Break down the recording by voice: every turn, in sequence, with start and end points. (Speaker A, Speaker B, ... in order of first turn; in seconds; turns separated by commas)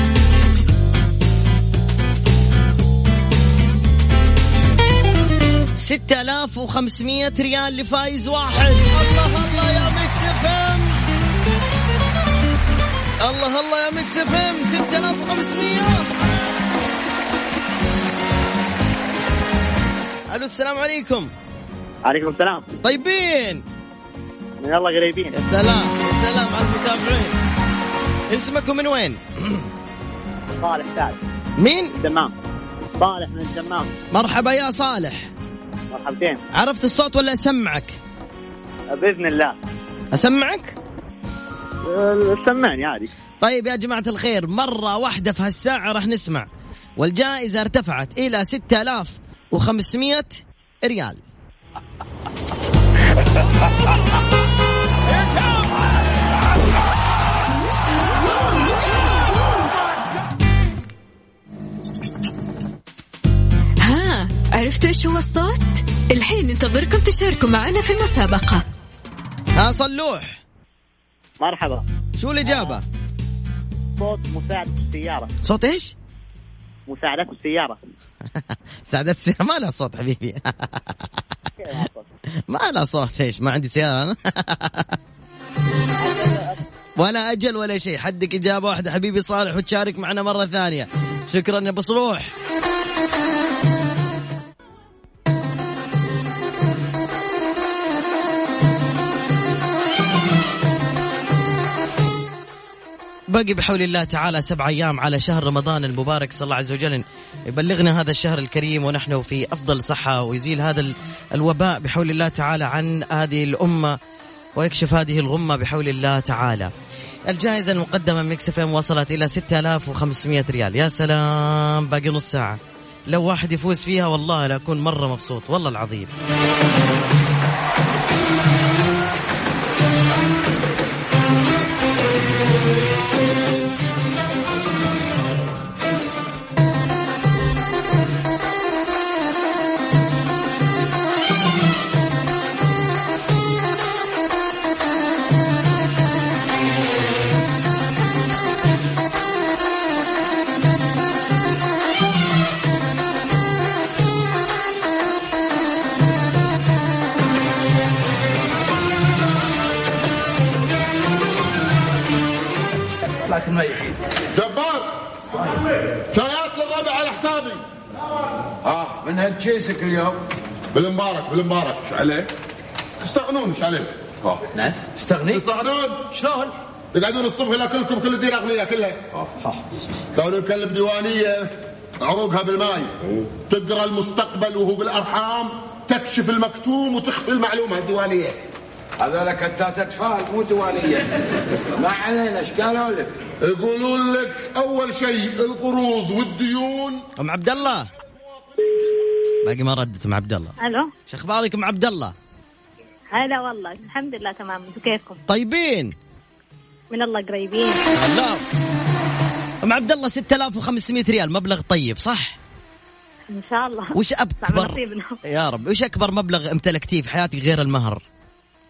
Speaker A: 5.8-11.0, Speaker A: 13.2-16.1, Speaker A: 20.3-21.3, Speaker B: 22.1-22.7, Speaker A: 22.8-23.6, Speaker B: 24.6-25.3, Speaker A: 25.3-27.4, Speaker A: 28.3-29.6, Speaker B: 30.6-31.2, Speaker A: 31.6-31.9, Speaker B: 31.9-32.3, Speaker B: 33.0-33.9, Speaker A: 34.1-35.3, Speaker B: 35.9-36.4, Speaker A: 36.5-38.0, Speaker B: 38.9-39.6, Speaker A: 40.1-40.8, Speaker B: 41.9-43.1, Speaker A: 43.4-46.5, Speaker A: 47.0-51.2, Speaker C: 63.8-68.6, Speaker A: 69.6-70.4, Speaker B: 71.4-71.8, Speaker A: 72.2-72.8, Speaker B: 72.4-72.8, Speaker B: 74.0-75.3, Speaker A: 75.4-76.0, Speaker B: 76.9-77.8, Speaker A: 78.4-81.1, Speaker B: 81.6-82.1, Speaker A: 82.5-85.0, Speaker B: 86.0-86.6, Speaker A: 87.0-92.3, Speaker A: 103.3-114.0, Speaker A: 114.6-116.7, Speaker A: 117.3-126.1, Speaker D: 164.4-164.9, Speaker D: 166.1-167.6, Speaker E: 168.9-170.1, Speaker D: 170.7-172.1, Speaker D: 173.0-173.9, Speaker D: 175.3-176.0, Speaker D: 176.9-179.0, Speaker D: 180.2-182.9, Speaker D: 183.5-188.4, Speaker E: 189.0-191.1, Speaker E: 191.8-193.1, Speaker D: 193.4-197.0, Speaker A: 197.2-197.9, Speaker A: 199.4-200.5, Speaker F: 200.6-200.9, Speaker A: 201.1-202.2, Speaker F: 203.1-205.2, Speaker A: 205.3-206.0, Speaker F: 206.9-207.8, Speaker A: 207.9-208.4, Speaker A: 209.6-212.4, Speaker F: 213.3-215.2, Speaker A: 213.9-218.0